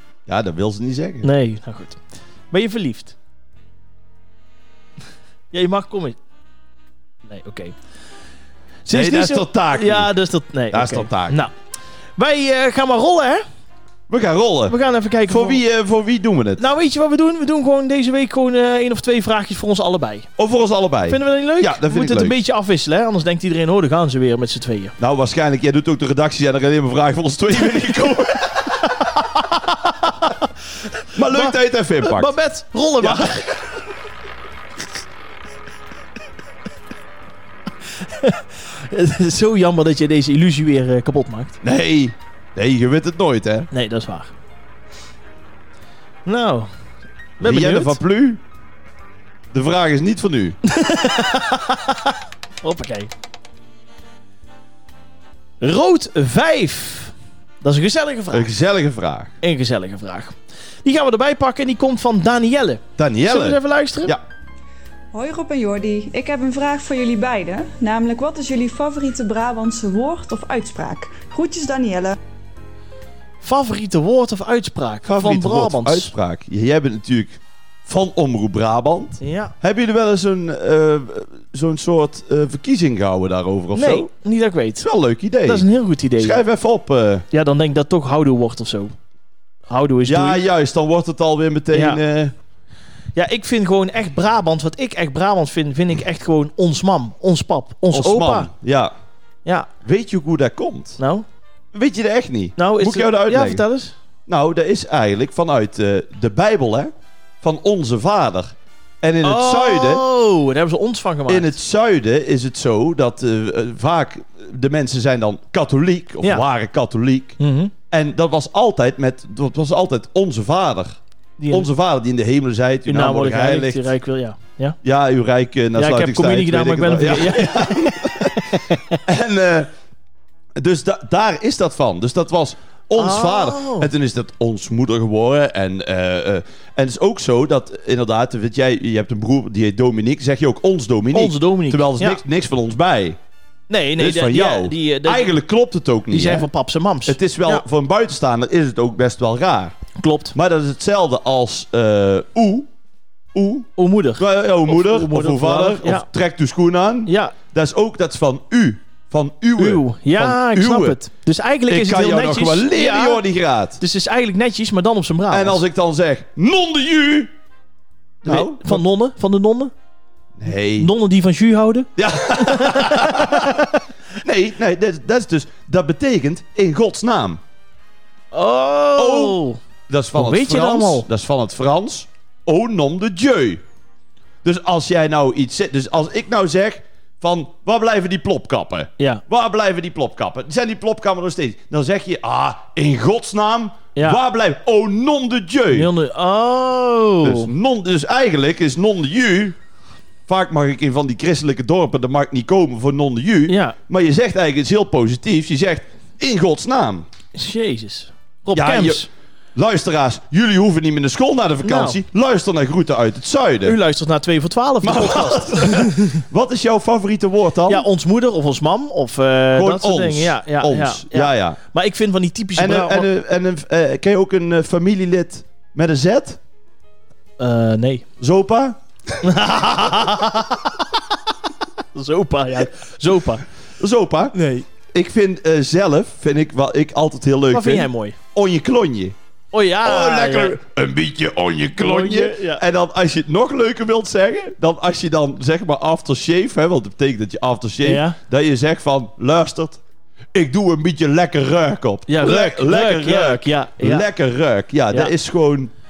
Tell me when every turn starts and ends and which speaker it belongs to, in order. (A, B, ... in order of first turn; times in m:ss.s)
0:00.3-0:01.3 A
0:01.2-0:03.1 B
0:05.5-0:06.2 B
0:07.3-0:07.8 B
0:08.8-0:11.5 B
0:08.9-0:10.1 A
0:10.7-0:11.4 A
0:12.2-0:13.4 B
0:14.1-0:16.6 A
0:14.7-0:15.6 B
0:16.6-0:20.3 B
0:20.4-0:22.4 A
0:21.0-0:24.9 B
0:25.0-0:29.0 A
0:28.7-0:30.5 B
0:31.1-0:32.3 A
0:31.3-0:33.6 B
0:33.0-0:33.5 A
0:37.8-0:41.6 B
0:41.6-0:43.7 A
0:43.7-0:44.3 B
0:46.2-0:46.7 B
0:47.4-0:48.0 B
0:47.4-0:48.4 A
0:49.5-0:50.6 A
0:50.6-0:53.1 B
0:55.6-0:58.5 B
0:58.3-0:59.3 A
0:59.4-1:04.1 B
1:03.0-1:04.2 A
1:05.1-1:12.2 C
1:13.4-1:16.1 B
1:15.0-1:24.1 A
1:19.2-1:19.5 B
1:23.7-1:24.9 B
1:24.8-1:25.7 A
1:25.4-1:26.4 B
1:26.2-1:27.2 A
1:27.3-1:28.9 B
1:29.7-1:30.4 B
1:30.0-1:32.3 A
1:31.7-1:32.0 B
1:33.1-1:38.5 B
1:37.9-1:38.9 A
1:39.8-1:41.0 A
1:41.0-1:41.2 B
1:41.7-1:43.6 A
1:42.6-1:43.9 B
1:44.3-1:50.0 A
1:49.2-1:51.6 B
1:51.3-1:57.4 A
1:57.4-1:57.7 B
1:57.9-2:01.0 A
2:01.4-2:01.7 B
2:01.5-2:03.9 A
2:02.9-2:04.8 B
2:04.8-2:09.7 A
2:05.8-2:09.0 B
2:10.6-2:23.2 A
2:12.9-2:13.9 B
2:21.1-2:22.2 B
2:23.7-2:25.3 B
2:24.0-2:26.5 A
2:26.1-2:27.6 B
2:27.0-2:29.8 A
2:30.0-2:30.3 B
2:30.3-2:32.7 A
2:33.3-2:41.0 A
2:33.8-2:36.1 B
2:37.0-2:37.3 B
2:39.6-2:43.2 B
2:41.7-2:43.8 A
2:43.8-2:45.6 B
2:45.3-2:47.3 A
2:48.2-2:48.8 A
2:48.2-2:49.7 B
2:50.4-2:50.9 A
2:50.8-2:53.8 B
2:52.0-2:53.7 A
2:54.2-2:57.4 A
2:58.3-2:59.6 B
2:59.0-3:03.6 A
3:00.1-3:01.1 B
3:04.4-3:15.9 A
3:13.9-3:14.2 B
3:15.7-3:17.5 B
3:17.2-3:19.6 A
3:20.3-3:27.1 A
3:23.5-3:23.8 B
3:27.3-3:29.1 B
3:28.5-3:33.8 A
3:31.6-3:32.0 B
3:33.6-3:36.2 B
3:34.8-3:37.8 A
3:37.7-3:43.1 B
3:39.5-3:41.6 A
3:42.6-3:46.4 A
3:47.4-3:48.0 B
3:48.2-3:48.8 A
3:49.2-3:51.0 B
3:49.8-3:50.3 A
3:51.9-3:53.4 B
3:53.8-3:54.3 A
3:54.3-3:54.7 B
3:54.9-3:59.1 A
3:57.5-3:58.2 B
3:59.5-4:00.6 B
3:59.8-4:09.8 A
4:01.8-4:02.6 B
4:07.8-4:08.2 B
4:10.3-4:15.7 A
4:12.1-4:14.1 B